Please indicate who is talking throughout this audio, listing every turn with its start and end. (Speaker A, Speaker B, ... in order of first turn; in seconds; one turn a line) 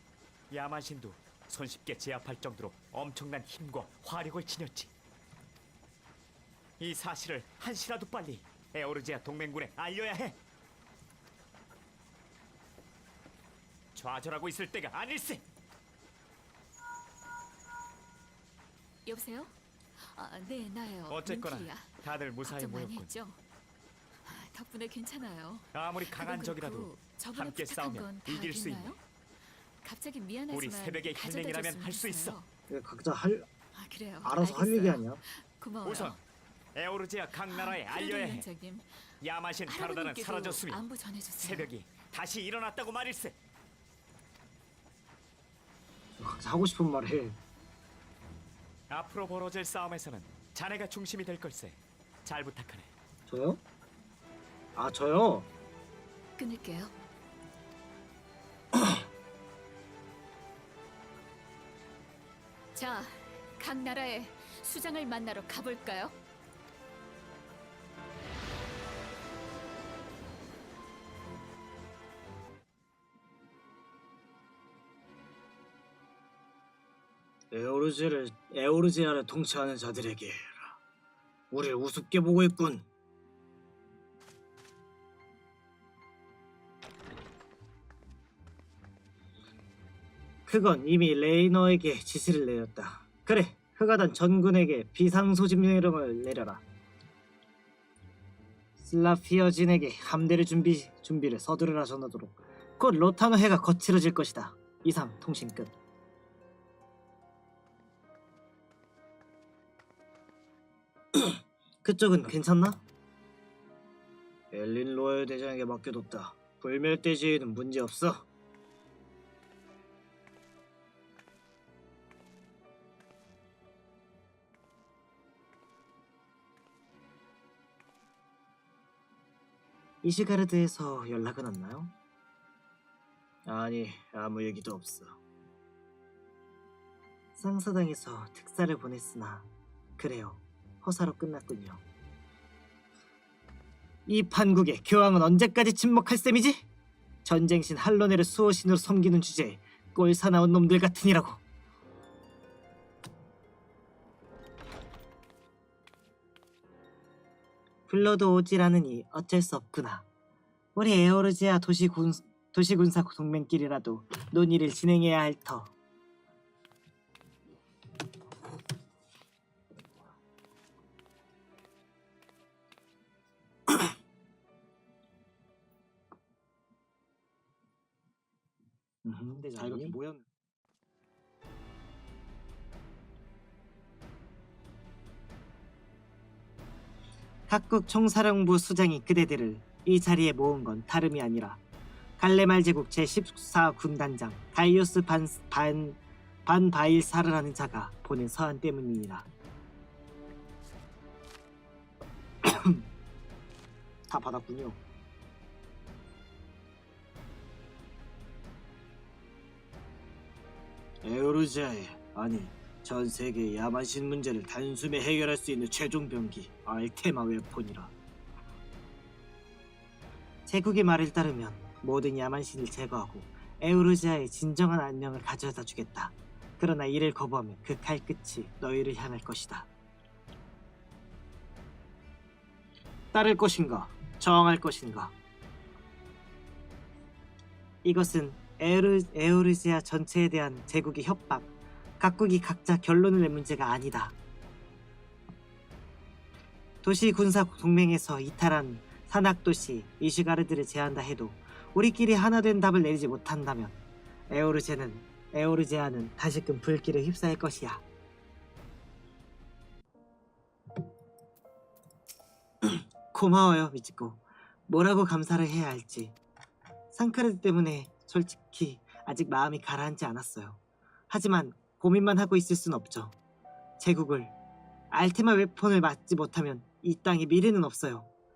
Speaker A: 0.5-4.9
Speaker A: 6.8-10.4
Speaker A: 13.9-15.4
Speaker B: 19.1-23.4
Speaker A: 21.1-23.1
Speaker B: 24.2-29.0
Speaker A: 25.7-29.0
Speaker B: 29.8-32.5
Speaker A: 30.5-32.4
Speaker C: 32.7-33.5
Speaker B: 33.8-36.2
Speaker C: 34.2-35.2
Speaker A: 35.8-36.2
Speaker A: 36.8-38.5
Speaker B: 37.5-39.1
Speaker A: 39.2-40.9
Speaker B: 39.7-41.7
Speaker A: 41.4-43.4
Speaker C: 46.2-47.4
Speaker A: 48.9-52.9
Speaker C: 53.3-53.6
Speaker C: 54.8-55.5
Speaker B: 56.4-57.0
Speaker B: 62.7-66.2
Speaker C: 77.5-80.8
Speaker C: 81.5-82.8
Speaker C: 90.5-96.6
Speaker C: 98.8-105.7
Speaker C: 111.2-112.8
Speaker C: 114.5-118.3
Speaker C: 130.0-131.9
Speaker C: 133.5-135.2
Speaker C: 137.4-139.5
Speaker C: 140.0-141.8
Speaker C: 144.1-146.7
Speaker C: 147.2-151.4
Speaker C: 157.9-160.1
Speaker C: 160.8-165.7
Speaker C: 179.1-180.2
Speaker C: 187.5-191.6
Speaker C: 192.2-199.3
Speaker C: 202.4-202.8
Speaker C: 204.1-204.8
Speaker C: 211.0-217.9
Speaker C: 220.5-229.7
Speaker C: 233.1-235.1
Speaker C: 237.8-244.2
Speaker C: 246.8-253.8
Speaker C: 254.3-257.8
Speaker C: 262.6-266.1
Speaker C: 266.9-270.6
Speaker C: 271.1-273.1
Speaker C: 273.8-274.3
Speaker C: 274.9-278.1